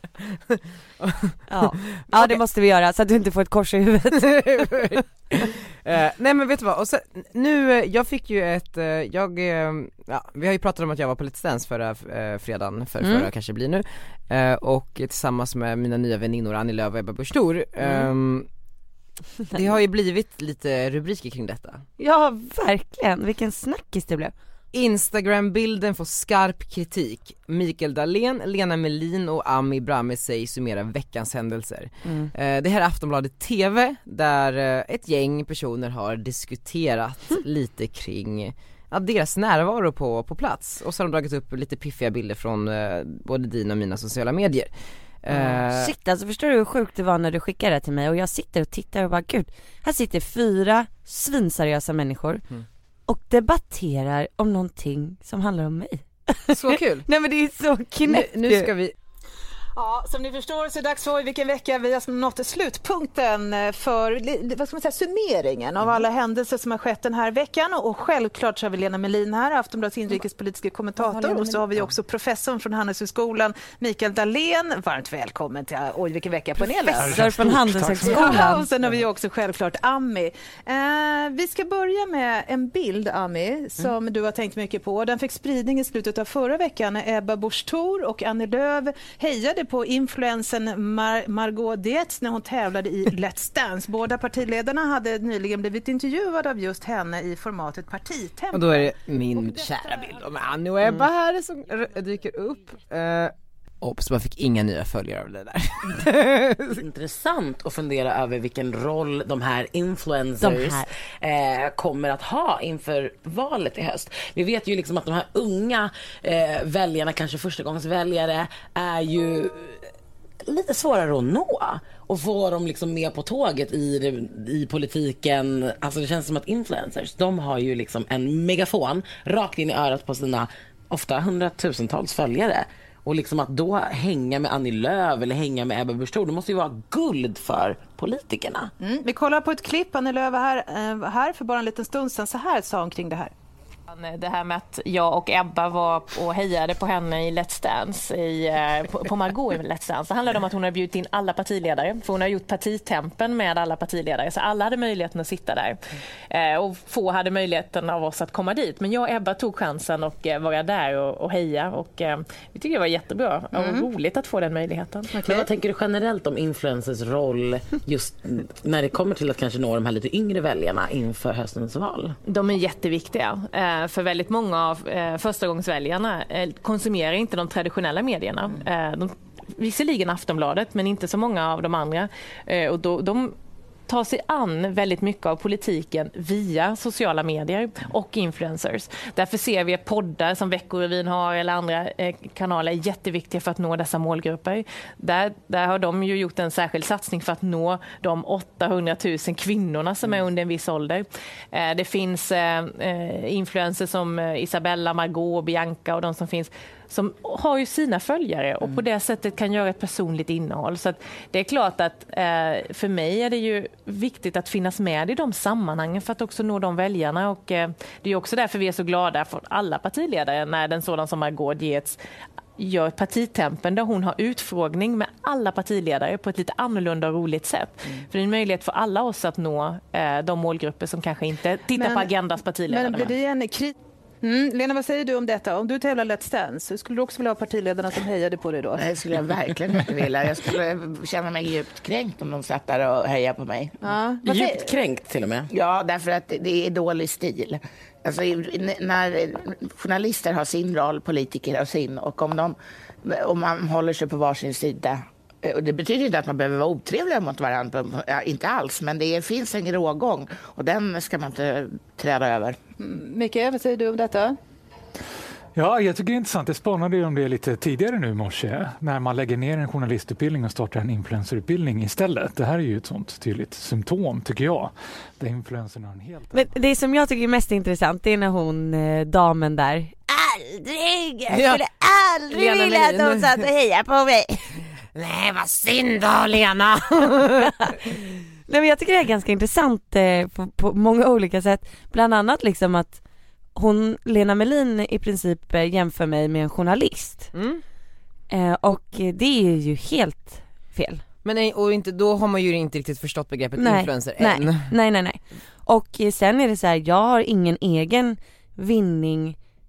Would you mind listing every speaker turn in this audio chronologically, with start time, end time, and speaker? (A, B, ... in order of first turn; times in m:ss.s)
0:00.2-0:02.4 A
0:01.5-0:05.0 B
0:04.3-0:18.5 A
0:13.0-0:13.3 B
0:17.8-0:18.1 B
0:19.5-0:21.8 A
0:22.0-0:24.3 B
0:24.7-0:44.7 A
0:32.0-0:32.3 B
0:45.2-0:45.9 A
0:45.3-0:52.4 B
0:53.1-0:58.7 B
0:56.5-0:57.1 A
0:58.0-0:59.0 A
0:59.8-1:17.2 C
1:11.0-1:11.7 B
1:16.8-1:18.7 B
1:17.0-1:18.6 D
1:18.0-1:38.9 C
1:38.5-1:46.8 A
1:46.7-1:59.8 E
1:50.4-1:50.9 B
2:00.5-2:18.7 E
2:18.8-2:23.3 C
2:23.9-2:35.8 F
2:36.3-2:45.4 F
2:45.1-2:52.2 E
2:52.3-3:03.4 F
3:03.9-3:42.0 F
3:42.6-3:53.1 F
3:51.8-3:52.1 C
3:52.7-3:58.8 C
3:58.8-4:03.8 G
4:03.8-4:04.6 C
4:04.2-4:05.5 E
4:05.5-4:22.6 G
4:22.8-4:24.4 C
4:25.6-4:36.5 D
4:36.3-4:44.6 B
4:41.3-4:41.6 A
4:42.3-4:43.5 A
4:45.0-4:47.8 A
4:47.4-4:53.0 B
4:53.6-4:57.3 B
4:57.3-4:57.6 A
4:58.3-5:01.0 B
5:01.2-5:04.7 A
5:03.6-5:09.4 B